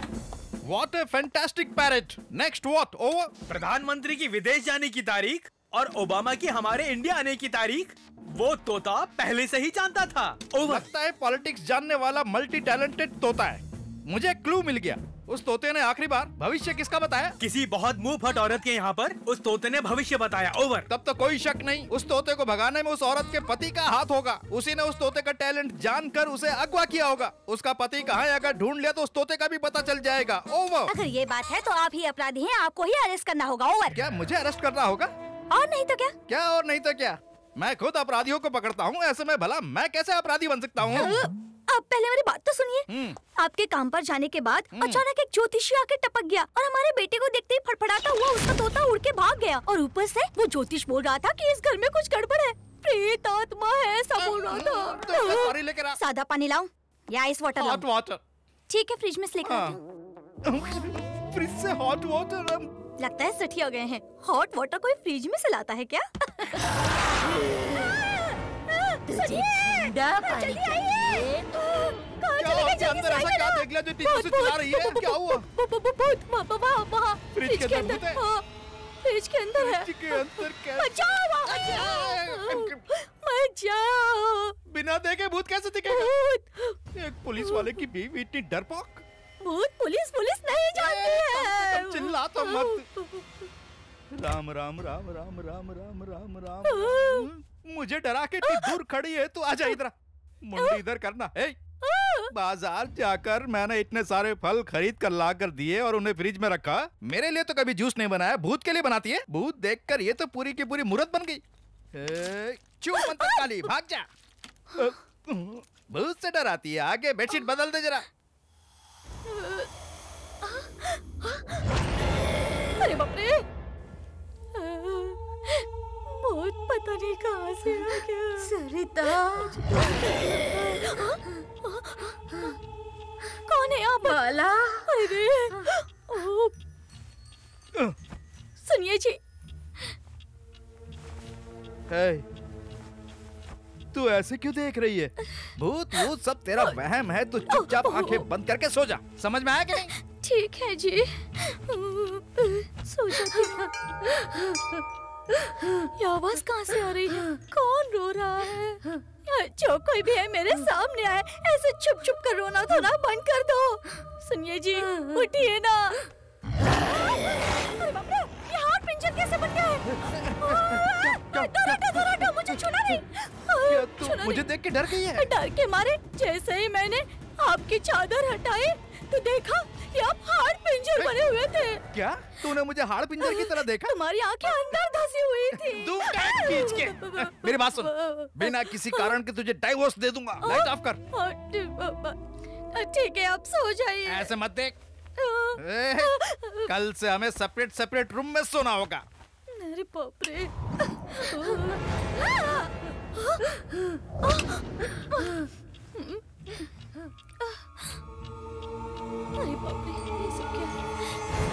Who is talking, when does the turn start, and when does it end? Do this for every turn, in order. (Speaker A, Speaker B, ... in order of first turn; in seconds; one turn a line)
Speaker A: 0.7-3.3
Speaker B: 3.5-10.8
Speaker A: 10.7-17.4
Speaker B: 17.4-20.9
Speaker A: 20.9-30.9
Speaker C: 30.9-34.0
Speaker A: 33.9-35.1
Speaker C: 35.5-36.2
Speaker A: 36.3-41.2
Speaker C: 40.9-57.9
Speaker A: 42.9-43.2
Speaker A: 44.7-45.0
Speaker A: 54.2-56.0
Speaker A: 57.6-58.2
Speaker C: 58.7-59.8
Speaker A: 59.4-59.8
Speaker A: 60.5-62.7
Speaker C: 63.0-66.5
Speaker C: 68.9-78.4
Speaker D: 69.1-71.5
Speaker A: 72.4-75.5
Speaker A: 77.3-78.2
Speaker C: 79.0-84.6
Speaker A: 79.6-82.8
Speaker A: 84.7-86.1
Speaker C: 85.9-86.8
Speaker A: 87.0-89.0
Speaker C: 87.4-87.8
Speaker C: 89.4-93.3
Speaker A: 90.8-92.8
Speaker A: 94.1-99.9
Speaker C: 96.7-97.3
Speaker C: 98.4-98.8
Speaker A: 100.5-101.6
Speaker C: 101.8-102.3
Speaker A: 102.3-111.4
Speaker A: 112.0-114.1
Speaker C: 113.0-113.4
Speaker A: 114.8-118.0
Speaker C: 119.3-119.7
Speaker C: 120.4-121.6
Speaker C: 122.8-123.4
Speaker C: 124.5-130.2
Speaker D: 127.7-130.6
Speaker C: 130.8-132.2
Speaker C: 133.5-134.2
Speaker D: 134.0-135.0
Speaker C: 134.9-136.5
Speaker C: 138.6-139.2
Speaker A: 141.9-142.2
Speaker A: 143.9-149.9
Speaker C: 147.5-148.3
Speaker C: 149.8-154.6
Speaker C: 155.3-166.0
Speaker D: 164.9-165.2
Speaker C: 167.1-169.9
Speaker A: 170.3-172.7
Speaker C: 170.4-181.8
Speaker A: 173.7-175.3
Speaker A: 181.0-181.2
Speaker A: 181.9-183.9
Speaker C: 183.2-189.2
Speaker A: 184.5-184.7
Speaker A: 185.6-191.0
Speaker C: 190.4-192.2
Speaker C: 192.7-194.3
Speaker A: 194.1-194.8
Speaker C: 195.2-196.7
Speaker A: 195.6-199.0
Speaker C: 199.5-203.6
Speaker C: 204.2-206.7
Speaker C: 209.4-210.9